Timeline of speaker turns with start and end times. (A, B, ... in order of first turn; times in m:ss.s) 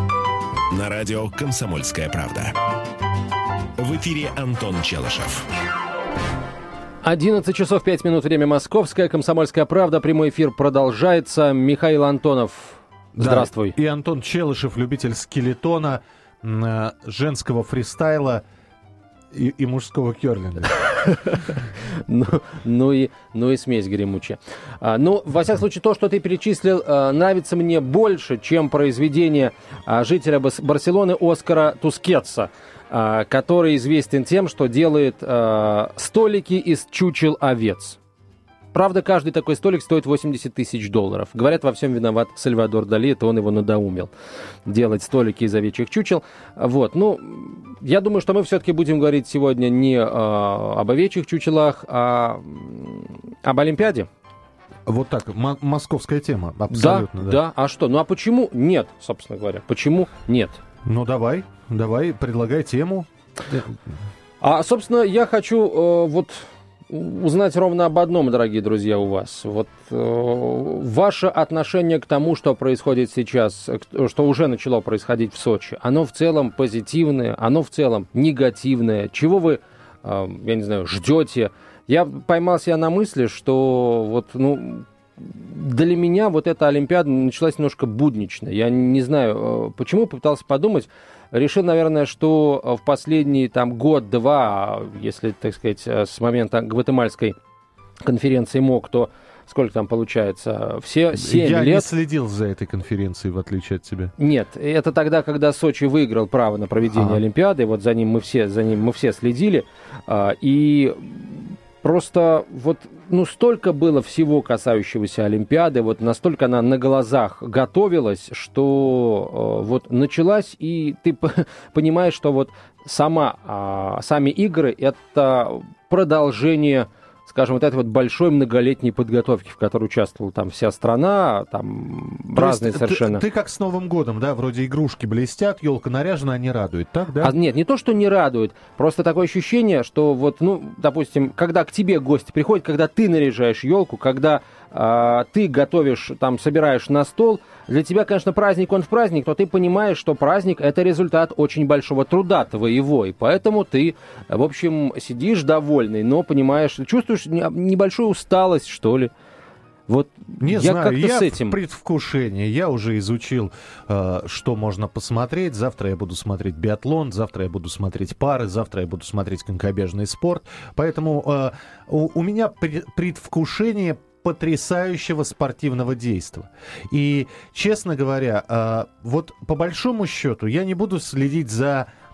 0:00.7-0:02.5 A
0:03.8-0:05.5 A
0:07.0-0:13.8 B
0:13.2-0:18.4 C
0:19.3-0:20.8 C
0:21.1-0:21.4 B
0:22.1-0:38.0 B
0:38.7-0:44.1 B
0:44.7-0:54.1 B
0:54.9-0:57.4 C
0:56.7-1:00.6 B
1:00.8-1:03.7 C
1:04.4-1:37.4 B
1:38.0-1:41.9 B
1:41.1-1:44.1 C
1:44.2-2:13.2 B
1:46.9-1:47.2 C
2:12.4-2:17.3 C
2:17.2-2:39.1 B
2:39.9-2:41.6 B
2:40.4-3:01.9 C